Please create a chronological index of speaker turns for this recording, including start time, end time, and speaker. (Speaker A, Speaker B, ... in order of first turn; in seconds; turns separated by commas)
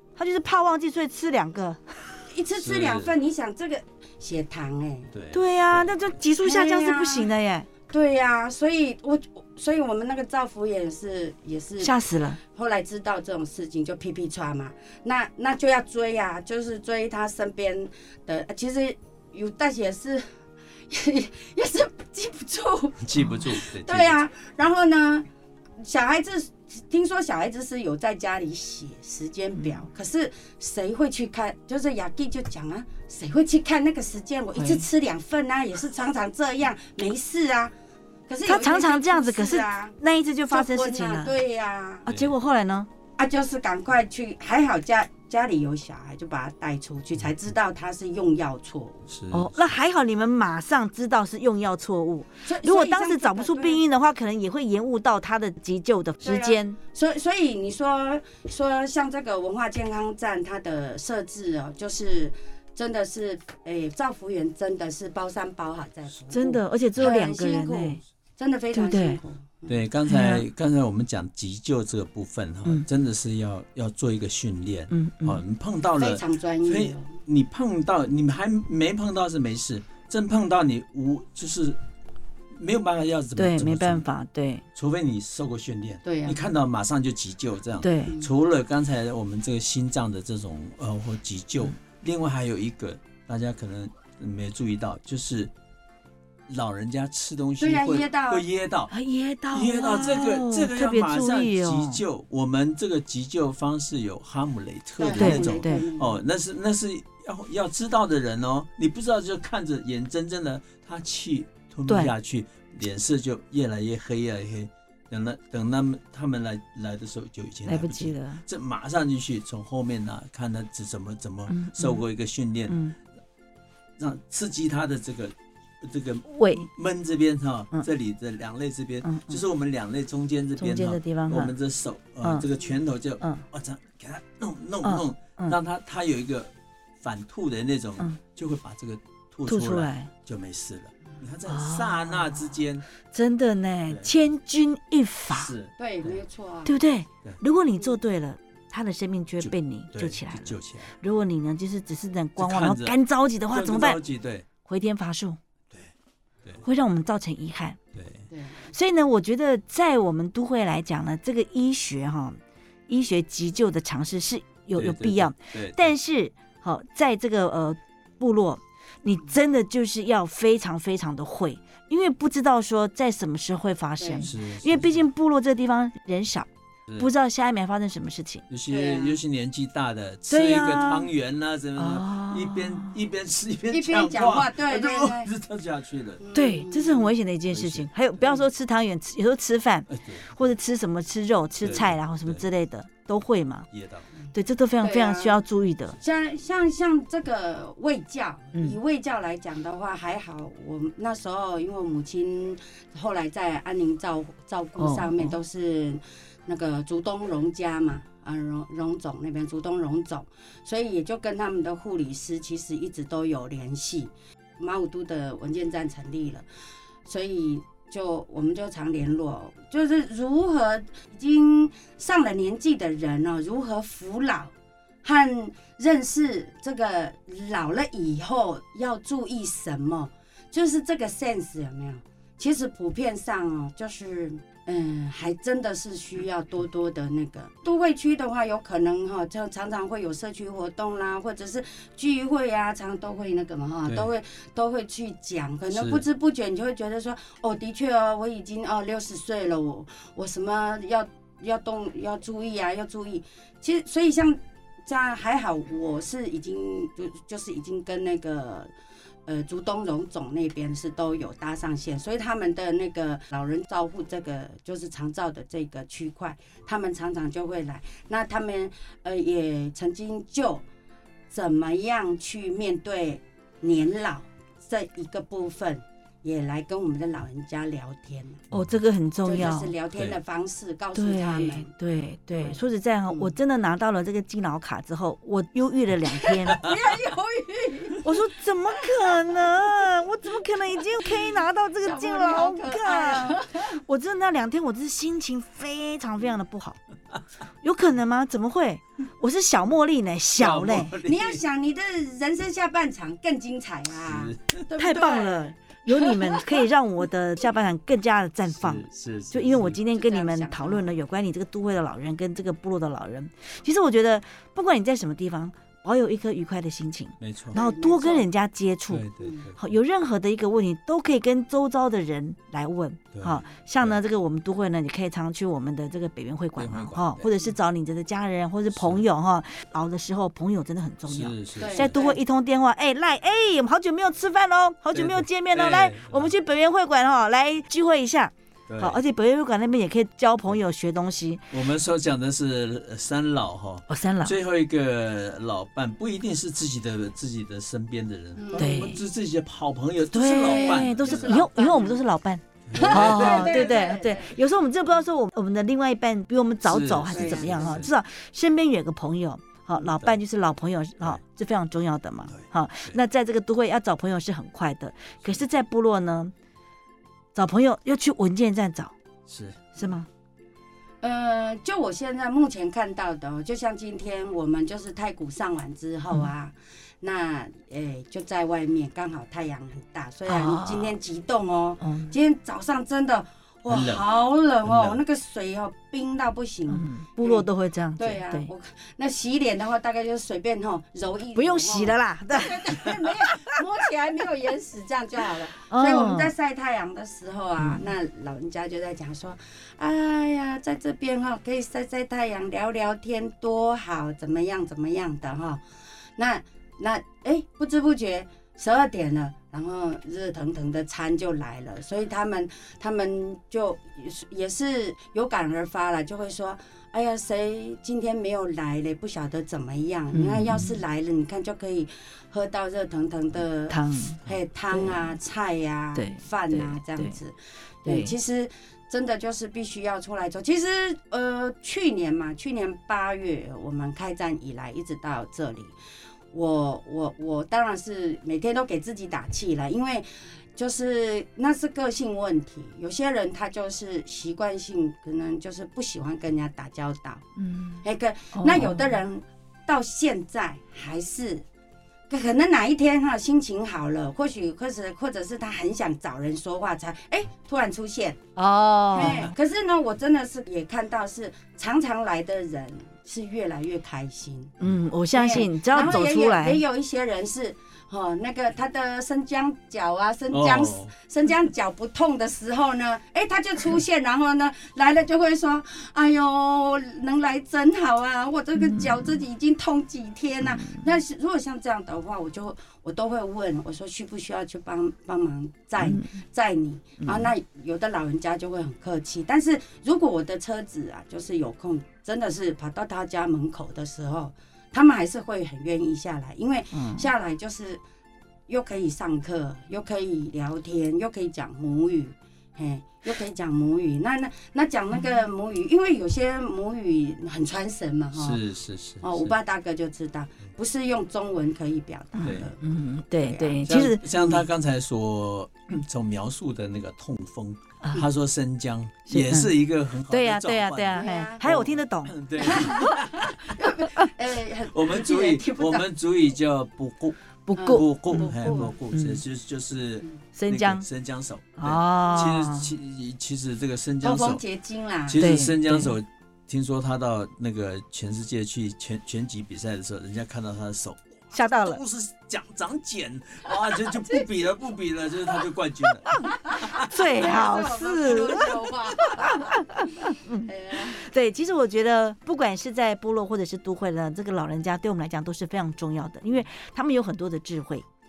Speaker A: 0.2-2.0, Speaker B: 2.3-5.1, Speaker C: 2.6-3.1, Speaker C: 5.1-5.9, Speaker A: 5.3-7.7, Speaker B: 6.4-7.3, Speaker B: 7.9-20.3, Speaker A: 11.8-12.4, Speaker B: 20.9-25.3, Speaker C: 23.0-24.2, Speaker B: 25.8-37.7, Speaker A: 34.6-34.9, Speaker B: 38.3-40.0, Speaker A: 38.5-41.4, Speaker B: 40.5-42.1, Speaker A: 42.1-42.9, Speaker B: 43.2-49.0, Speaker C: 49.1-49.7, Speaker A: 49.3-56.8, Speaker B: 52.4-53.8, Speaker B: 56.2-69.8, Speaker A: 66.3-68.0, Speaker A: 68.7-69.2, Speaker C: 69.7-81.8, Speaker A: 70.1-70.5, Speaker A: 74.9-75.4, Speaker B: 76.0-77.2, Speaker C: 82.5-84.1, Speaker A: 83.4-84.7, Speaker C: 84.8-95.5, Speaker B: 86.0-86.4, Speaker A: 87.8-88.2, Speaker C: 96.5-98.9, Speaker B: 97.6-98.5, Speaker A: 98.9-102.0, Speaker C: 99.5-122.8, Speaker B: 105.0-106.2, Speaker A: 105.1-105.9, Speaker A: 111.9-112.1, Speaker A: 117.7-118.4, Speaker A: 121.5-122.0, Speaker A: 122.7-123.0, Speaker C: 124.0-142.9, Speaker A: 126.3-126.7, Speaker A: 129.0-129.4, Speaker A: 130.6-131.5, Speaker A: 134.8-135.6, Speaker A: 139.5-140.1, Speaker A: 141.5-142.6, Speaker A: 143.1-145.5, Speaker C: 143.9-144.1, Speaker C: 145.3-146.2, Speaker B: 145.8-146.8, Speaker A: 146.7-154.0, Speaker C: 149.4-150.9, Speaker C: 152.4-153.0, Speaker C: 153.5-154.5, Speaker A: 154.7-155.4, Speaker A: 156.6-157.8, Speaker C: 157.9-158.2, Speaker B: 158.3-158.7, Speaker A: 158.7-176.5, Speaker C: 164.8-165.9, Speaker B: 174.0-174.3, Speaker C: 174.2-175.1, Speaker A: 177.0-178.4, Speaker C: 178.5-186.2, Speaker B: 178.7-179.2, Speaker A: 180.3-181.1, Speaker A: 181.8-182.9, Speaker B: 183.7-185.3, Speaker B: 186.2-187.1, Speaker A: 186.3-193.7, Speaker C: 187.5-187.9, Speaker C: 189.9-190.4, Speaker C: 191.6-192.5, Speaker C: 193.7-194.1, Speaker A: 194.3-196.0, Speaker B: 194.8-195.4, Speaker B: 196.0-216.5, Speaker A: 204.8-205.3, Speaker B: 217.1-224.5, Speaker B: 225.0-258.7, Speaker C: 245.7-246.0, Speaker B: 259.3-270.6, Speaker B: 271.3-278.5, Speaker C: 278.5-278.8, Speaker A: 278.5-279.7, Speaker B: 279.2-281.7, Speaker A: 280.9-286.7, Speaker B: 282.4-283.3, Speaker B: 286.1-288.2, Speaker A: 288.0-296.8, Speaker B: 291.0-291.3, Speaker B: 291.8-293.8, Speaker A: 297.6-301.0, Speaker C: 300.4-301.4, Speaker B: 301.0-306.6, Speaker C: 304.0-304.6, Speaker A: 304.8-341.4, Speaker C: 308.6-309.8, Speaker B: 309.7-310.9, Speaker C: 317.2-317.6, Speaker B: 317.5-318.3, Speaker C: 318.9-319.7, Speaker B: 319.2-319.5, Speaker C: 323.1-324.0, Speaker C: 326.6-327.3, Speaker C: 328.7-329.0, Speaker C: 331.1-332.0, Speaker B: 331.6-332.2, Speaker C: 334.9-336.3, Speaker C: 338.7-339.0, Speaker C: 341.5-351.4, Speaker A: 343.9-344.4, Speaker B: 348.4-348.9, Speaker A: 348.6-349.0, Speaker A: 350.1-366.3, Speaker B: 350.4-352.0, Speaker C: 352.7-353.7, Speaker B: 352.8-354.4, Speaker C: 356.6-357.9, Speaker B: 357.1-357.8, Speaker C: 359.9-360.2, Speaker C: 362.3-363.0, Speaker A: 367.4-368.9, Speaker C: 369.3-369.8, Speaker A: 369.8-370.1, Speaker B: 371.0-387.5, Speaker A: 380.3-381.0, Speaker A: 381.8-382.1, Speaker C: 383.7-384.0, Speaker C: 384.6-385.0, Speaker A: 386.7-388.5, Speaker B: 388.0-405.6, Speaker A: 391.4-392.9, Speaker A: 395.7-396.3, Speaker B: 406.2-435.8, Speaker A: 420.1-420.8, Speaker A: 423.7-424.2, Speaker A: 425.9-427.1, Speaker A: 427.9-428.1, Speaker B: 436.3-447.3, Speaker A: 447.4-447.8, Speaker B: 447.8-451.4, Speaker A: 448.4-448.9, Speaker B: 452.1-458.3, Speaker A: 458.4-459.3, Speaker B: 458.9-464.5, Speaker C: 459.0-459.3, Speaker A: 464.6-466.6, Speaker B: 465.1-497.8, Speaker C: 470.3-470.9, Speaker A: 478.6-479.0, Speaker A: 480.6-480.8, Speaker A: 485.8-486.2, Speaker A: 487.0-487.3, Speaker A: 496.7-497.1, Speaker B: 498.5-508.4, Speaker C: 508.2-509.3, Speaker B: 509.0-512.7, Speaker A: 512.2-514.4, Speaker C: 512.2-512.5, Speaker B: 513.2-513.8, Speaker C: 513.7-523.5, Speaker A: 519.1-519.5, Speaker A: 520.1-523.0, Speaker B: 521.0-521.4, Speaker B: 522.4-525.9, Speaker C: 524.7-534.4, Speaker A: 527.5-529.2, Speaker B: 527.5-528.8, Speaker A: 530.3-530.9, Speaker A: 531.6-532.8, Speaker B: 534.0-535.3, Speaker C: 535.1-547.0, Speaker A: 535.2-536.0, Speaker A: 541.3-541.8, Speaker A: 546.1-557.9, Speaker B: 546.3-551.1